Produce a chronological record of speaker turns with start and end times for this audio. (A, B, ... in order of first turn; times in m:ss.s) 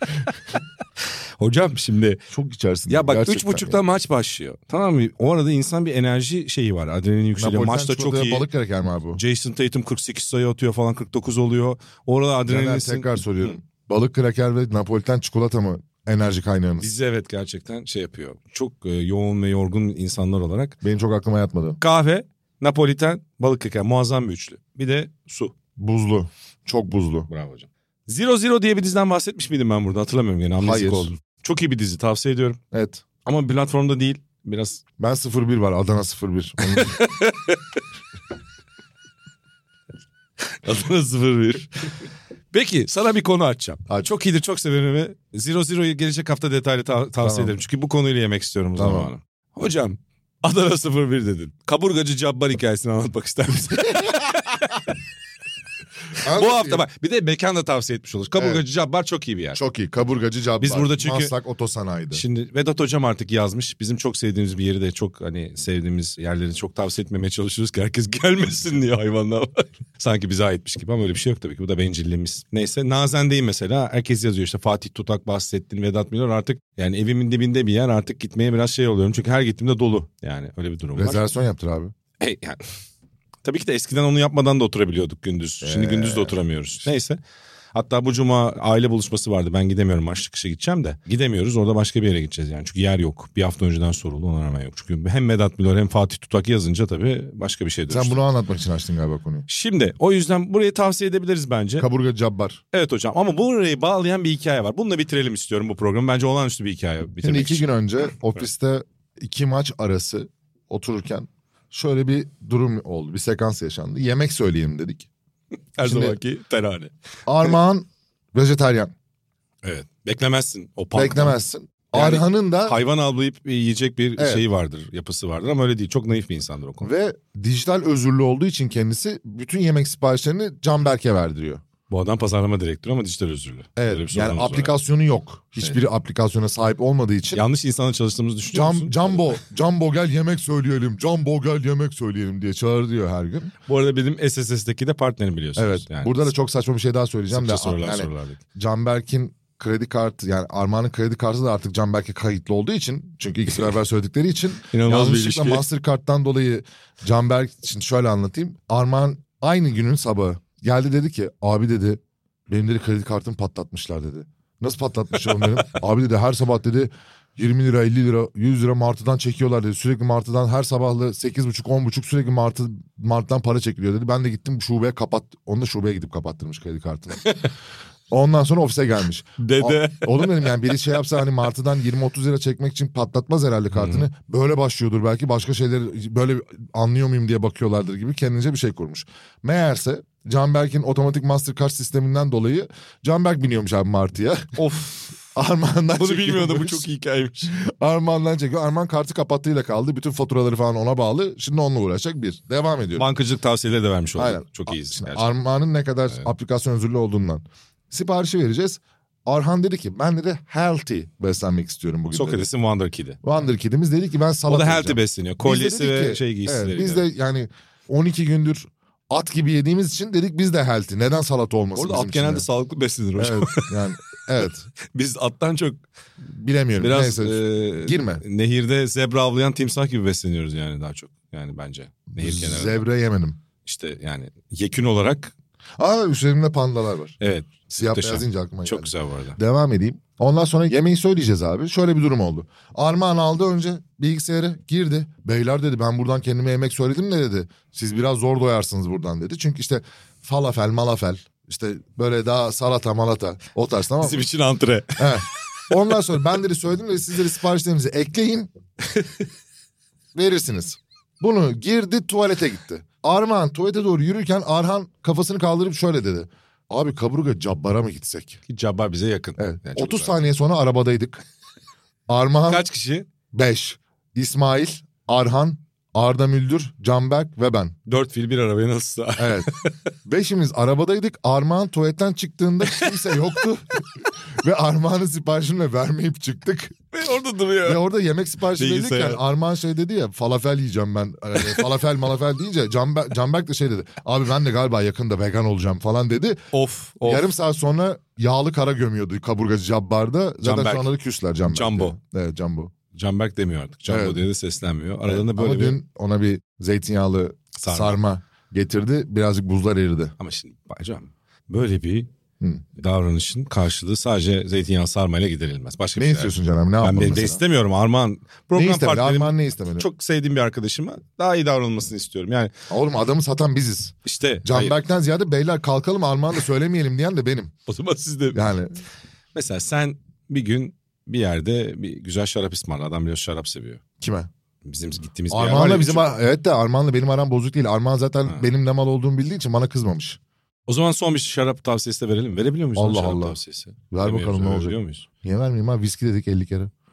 0:01.4-0:02.2 A
0:02.3-0:03.8 B
0:02.9-0:08.5 A
0:07.4-0:09.2 B
0:09.1-0:13.6 A
0:12.5-0:16.9 B
0:16.8-0:20.8 A
0:20.8-0:21.8 B
0:21.8-0:25.5 A
0:25.8-0:27.3 B
0:27.3-0:32.6 A
0:30.6-0:31.1 B
0:32.7-0:33.0 B
0:33.2-0:34.8 A
0:35.0-0:37.0 B
0:36.6-0:37.6 A
0:40.6-0:41.9 A
0:42.5-0:54.8 A
0:47.2-0:47.5 B
0:48.8-0:49.1 B
0:53.9-0:54.2 B
0:56.2-0:56.8 B
0:56.2-0:59.6 A
0:58.4-0:58.6 B
0:59.5-1:02.2 B
1:00.6-1:01.3 A
1:02.1-1:21.2 A
1:21.0-1:21.9 B
1:22.2-1:22.7 A
1:23.4-1:27.2 A
1:25.6-1:26.4 B
1:27.7-1:38.2 A
1:37.9-1:39.4 B
1:39.5-1:41.9 A
1:41.8-1:42.6 B
1:42.7-1:47.7 A
1:47.2-1:55.1 B
1:55.8-1:57.5 A
1:55.8-1:56.2 B
1:57.2-1:58.9 B
1:59.6-2:01.4 A
2:00.9-2:02.8 B
2:01.9-2:06.9 A
2:04.2-2:04.4 B
2:06.8-2:11.6 B
2:11.9-2:14.8 A
2:13.8-2:17.4 B
2:17.3-2:19.4 A
2:18.5-2:23.5 B
2:23.6-2:26.3 A
2:25.6-2:57.4 B
2:27.3-2:28.4 A
2:34.7-2:35.6 A
2:58.1-3:14.6 B
2:59.4-3:01.0 A
3:03.7-3:04.1 A
3:14.6-3:15.1 A
3:15.3-3:16.9 B
3:15.9-3:17.6 A
3:17.5-3:23.1 B
3:23.0-3:25.3 A
3:24.2-3:32.5 B
3:32.1-3:33.2 A
3:33.2-3:42.4 B
3:34.5-3:37.0 A
3:41.7-3:43.8 A
3:43.2-3:44.7 B
3:44.9-3:45.8 A
3:46.2-3:48.2 B
3:46.8-3:52.8 A
3:52.1-3:53.4 B
3:53.6-3:55.3 A
3:55.8-3:57.2 B
3:57.2-3:59.4 A
3:57.7-4:14.2 B
4:14.0-4:15.7 A
4:15.0-4:18.5 B
4:18.8-4:19.2 A
4:20.1-4:28.4 B
4:28.5-4:30.1 A
4:29.4-4:31.2 B
4:32.1-4:32.6 B
4:32.5-4:33.1 A
4:33.3-4:37.7 B
4:37.9-4:39.8 A
4:39.2-4:39.5 B
4:40.0-4:43.8 B
4:42.6-4:43.2 A
4:44.4-4:46.8 B
4:46.9-4:47.8 A
4:47.6-4:56.4 B
4:48.5-4:49.2 A
4:56.5-4:57.3 A
4:57.0-5:02.7 B
5:00.4-5:00.9 A
5:01.5-5:02.0 A
5:02.9-5:05.8 A
5:03.9-5:04.2 B
5:05.0-5:10.1 B
5:07.6-5:08.0 A
5:10.2-5:12.1 A
5:12.8-5:22.5 A
5:16.0-5:17.4 B
5:18.5-5:19.9 B
5:22.7-5:27.5 B
5:24.0-5:24.8 A
5:27.7-5:28.5 A
5:28.3-5:28.7 B
5:29.3-5:33.8 A
5:34.0-5:34.3 B
5:34.6-5:36.1 A
5:35.3-5:40.2 B
5:40.7-5:45.0 A
5:42.8-5:43.4 B
5:43.9-5:46.7 B